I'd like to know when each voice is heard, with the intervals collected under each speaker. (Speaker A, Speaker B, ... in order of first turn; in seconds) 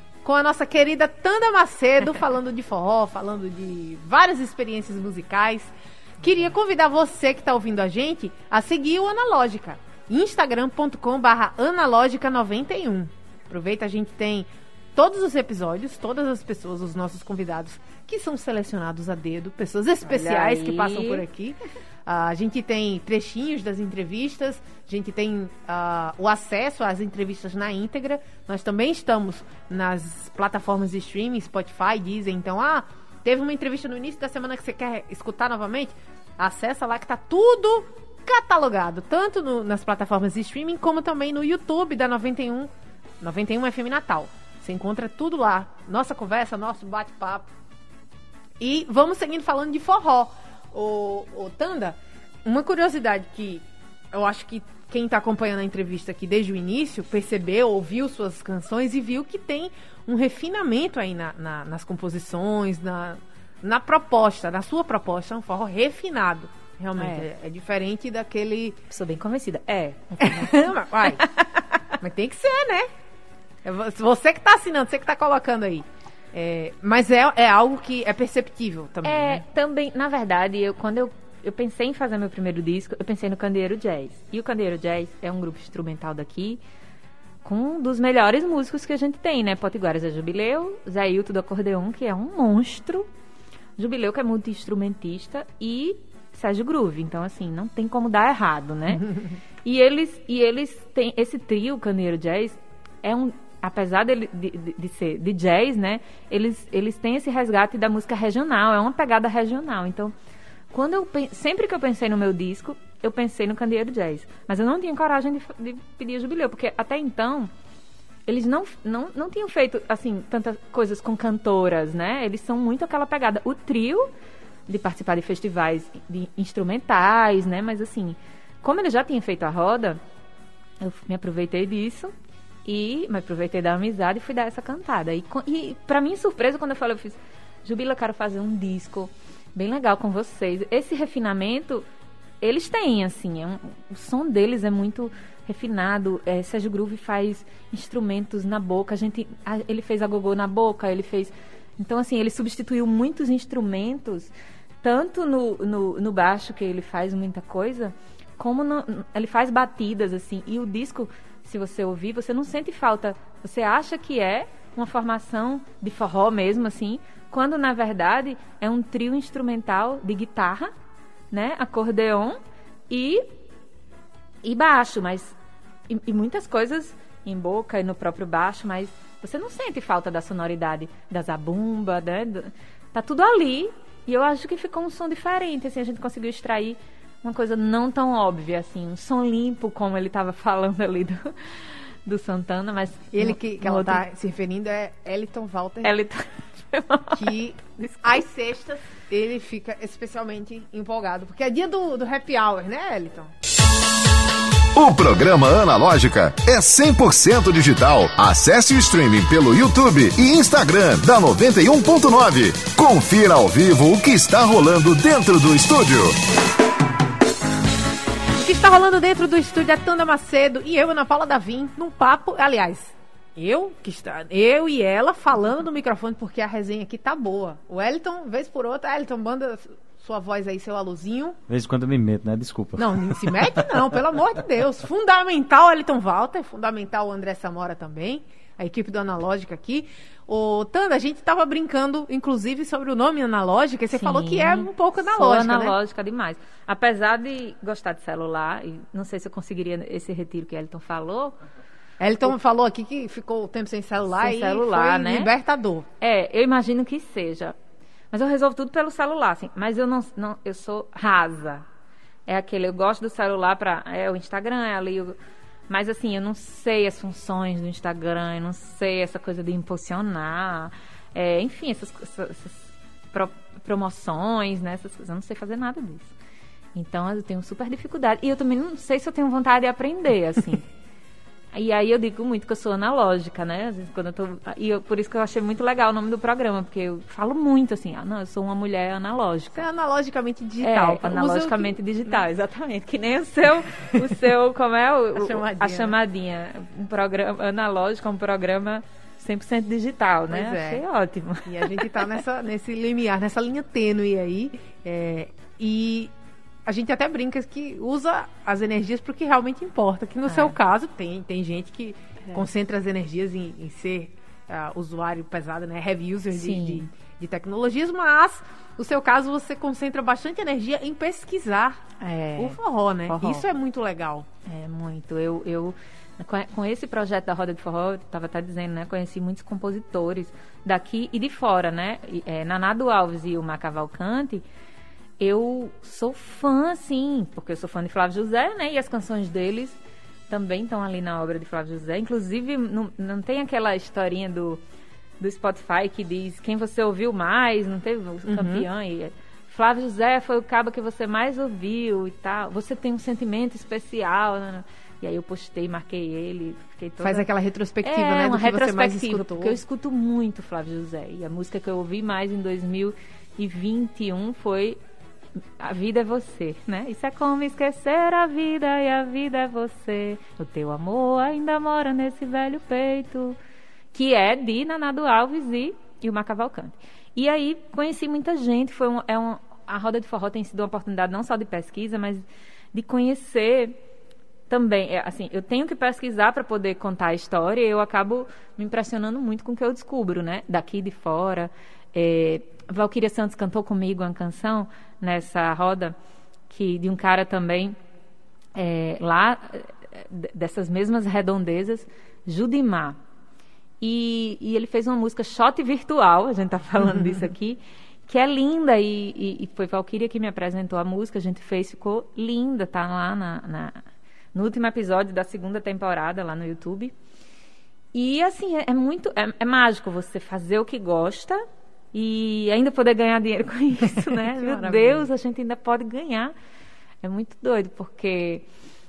Speaker A: 0.2-42.7, 43.2-47.5, 48.6-68.8, 70.2-71.2, 72.0-72.9, 73.6-79.4, 193.1-195.9, 197.1-203.3, 218.3-231.4, 232.8-245.7, 252.0-255.9, 289.5-291.8, 295.1-295.9, 300.3-300.8, 301.4-306.1, 306.6-321.8, 322.4-324.3, 348.3-348.6, 357.0-359.6, 424.0-425.1
Speaker B: 20.0-21.2, 67.0-67.2, 68.9-71.4, 79.0-86.6, 87.4-93.1, 93.8-99.1, 99.6-110.1, 110.7-117.5, 118.3-124.1, 124.7-130.0, 130.8-132.1, 132.6-141.8, 142.4-170.7, 171.3-172.4, 172.9-173.2, 174.4-175.3, 175.9-194.0, 195.8-198.0, 243.9-251.3, 254.2-255.3, 256.0-257.5, 258.1-261.6, 262.2-265.1, 265.7-276.1, 276.7-280.6, 281.5-289.6, 290.6-301.8, 310.3-310.6, 316.3-316.9, 322.0-323.4, 324.4-334.4, 335.2-339.8, 340.3-344.6, 345.2-357.3, 357.8-364.8, 365.6-373.4, 373.9-383.8, 384.5-395.9, 396.5-397.8, 398.5-403.0, 403.8-413.8, 414.3-416.9, 417.9-421.4, 421.9-426.3, 427.0-428.4
Speaker C: 204.7-216.2
Speaker D: 231.5-233.9